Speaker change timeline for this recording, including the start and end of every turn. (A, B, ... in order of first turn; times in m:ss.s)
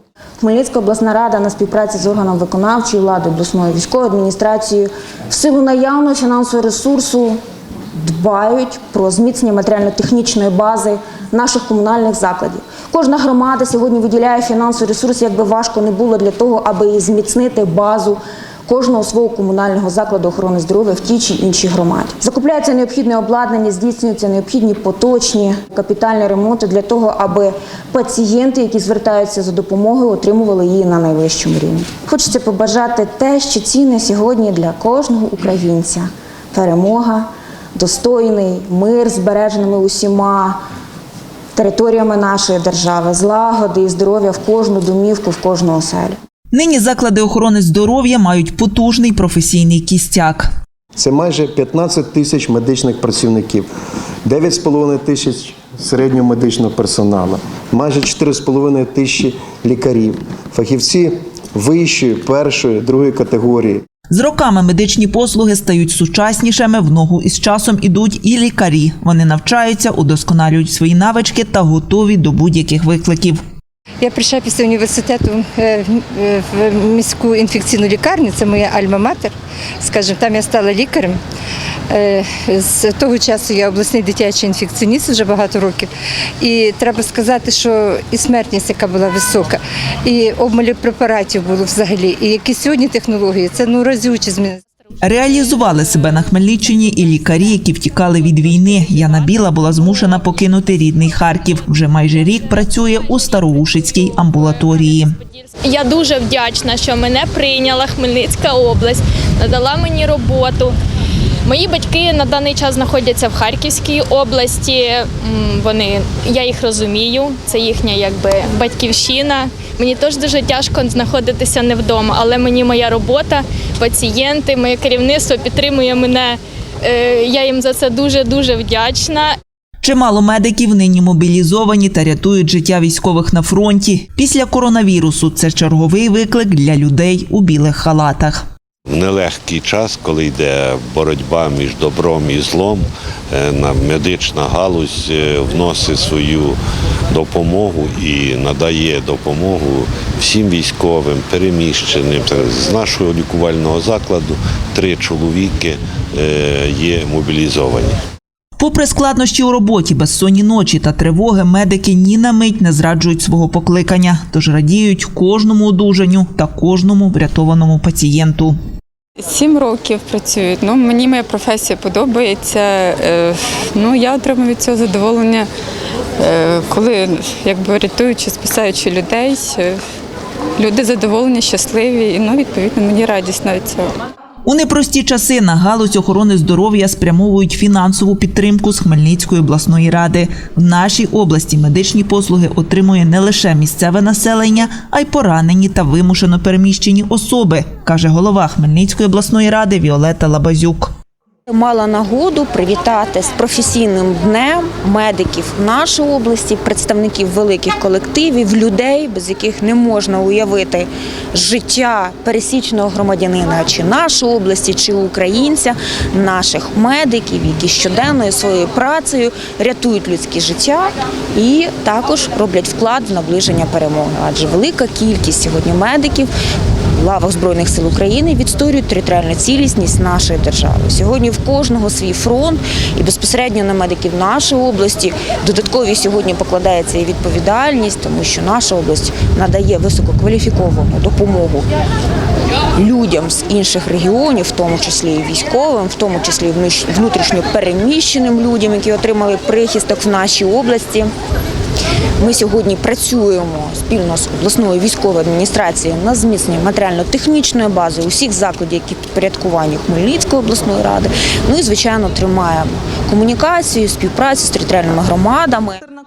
0:00.4-0:07.4 A
0:08.0-0:40.6 A
0:41.5-0:46.2 A
0:46.5-0:50.5 B
0:51.0-0:53.7 C
0:54.2-1:03.8 C
1:04.1-1:13.4 B
1:14.0-1:21.2 D
1:21.9-1:34.6 D
1:35.0-1:45.1 B
1:45.6-1:50.7 E
1:51.4-2:09.3 E
2:09.8-2:18.4 B
2:18.9-2:26.6 F
2:27.1-2:38.0 F
2:38.6-2:48.6 B
2:49.2-2:55.5 G
2:56.2-2:59.8 G
3:00.6-3:03.9 G
3:04.4-3:20.9 B
3:21.5-3:46.3 A
3:47.0-4:01.7 A
4:02.8-4:11.1 A
4:12.2-4:25.8 A